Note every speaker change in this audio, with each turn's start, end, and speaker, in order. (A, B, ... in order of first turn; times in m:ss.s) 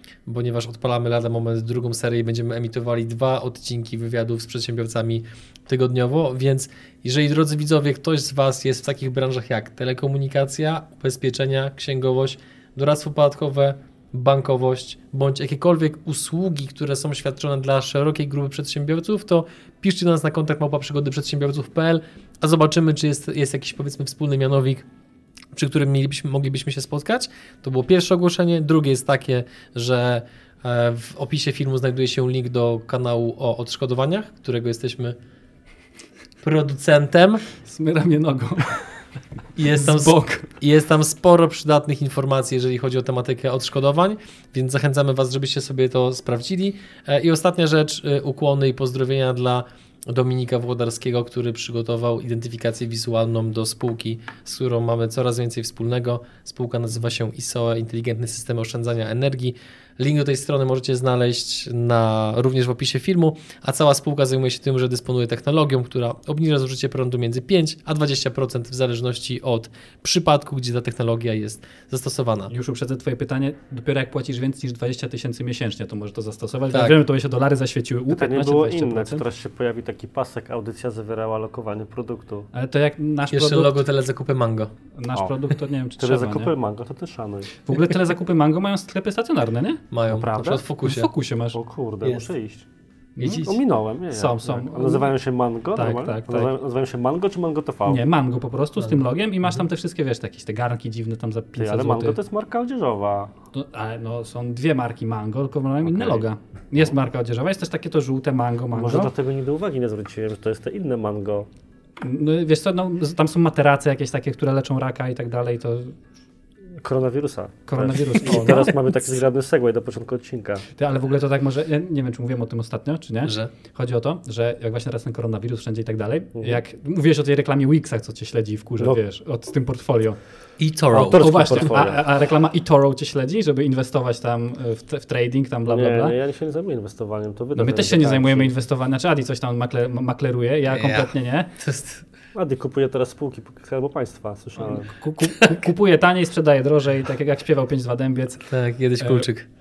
0:00.3-0:24.9 A
0:25.5-0:35.2 A
0:36.4-0:37.4 A
0:37.6-0:39.0 B
0:39.6-1:12.5 A
0:39.8-0:40.5 B
1:12.5-1:19.2 B
1:16.7-1:17.0 A
1:18.1-1:22.5 C
1:22.5-1:23.8 B
1:23.3-1:24.7 A
1:25.0-1:26.5 B
1:26.0-1:27.5 C
1:27.6-1:31.6 B
1:29.9-1:31.1 A
1:31.5-1:32.7 C
1:32.0-1:32.3 A
1:33.2-1:33.5 B
1:33.2-1:33.5 A
1:33.4-1:38.0 C
1:34.1-1:35.2 B
1:35.8-1:36.5 B
1:37.9-1:42.2 B
1:41.6-1:43.3 C
1:43.5-1:49.1 B
1:45.8-1:46.2 C
1:48.7-1:51.5 C
1:52.0-1:56.0 B
1:56.8-2:00.7 C
1:57.7-1:59.1 B
2:00.8-2:10.2 B
2:03.2-2:03.5 A
2:06.4-2:06.6 C
2:10.6-2:11.7 A
2:10.9-2:16.2 B
2:10.9-2:12.0 C
2:15.7-2:18.5 C
2:17.6-2:21.5 B
2:20.7-2:22.1 A
2:22.3-2:24.9 C
2:24.6-2:28.5 B
2:25.2-2:25.6 A
2:28.5-2:29.5 A
2:29.0-2:29.3 B